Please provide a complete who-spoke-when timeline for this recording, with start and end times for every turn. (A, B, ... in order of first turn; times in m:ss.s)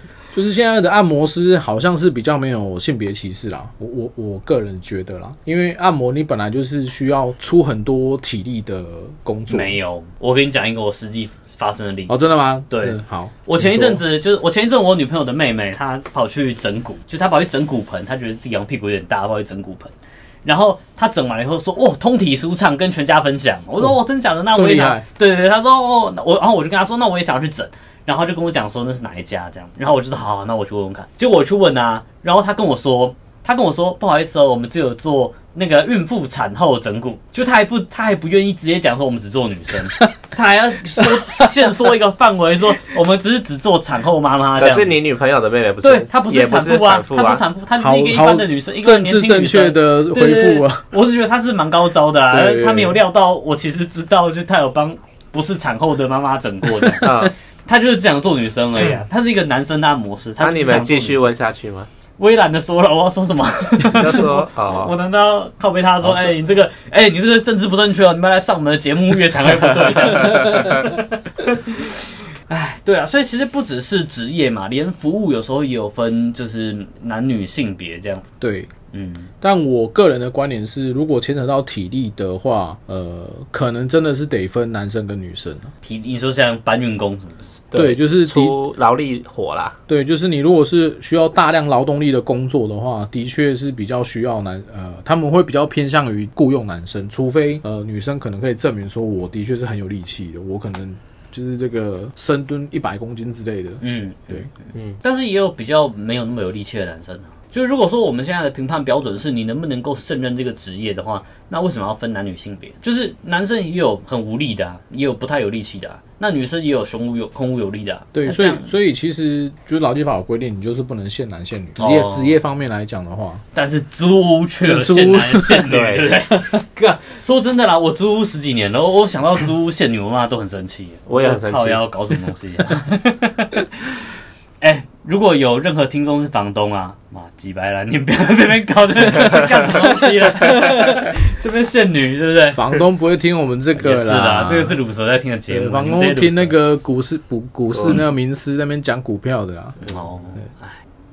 0:00.3-0:09.8 A
0:09.5-0:12.2 B
0:12.1-0:14.0 A
0:12.7-0:45.0 B
0:24.5-0:25.0 A
0:41.0-0:41.5 A
0:44.6-0:47.4 C
0:45.8-1:01.3 B
0:47.8-0:50.8 A
0:52.3-0:53.0 A
0:57.0-0:57.3 C
1:00.4-1:01.9 C
1:02.2-1:18.3 B
1:03.9-1:04.9 C
1:10.3-1:10.8 A
1:18.4-1:18.7 A
1:18.9-1:19.3 B
1:19.4-1:25.7 A
1:25.8-1:27.5 B
1:27.7-1:29.8 C
1:27.8-1:28.6 A
1:29.9-1:43.8 A
1:43.8-1:44.5 B
1:44.7-1:45.0 C
1:45.0-1:58.7 B
1:58.1-2:03.4 A
2:01.8-2:02.4 B
2:03.6-2:14.0 B
2:04.6-2:05.7 A
2:05.7-2:06.1 C
2:11.1-2:11.8 C
2:14.6-2:22.7 B
2:22.6-2:24.8 A
2:23.8-2:26.6 B
2:25.5-2:29.8 A
2:29.8-2:30.8 B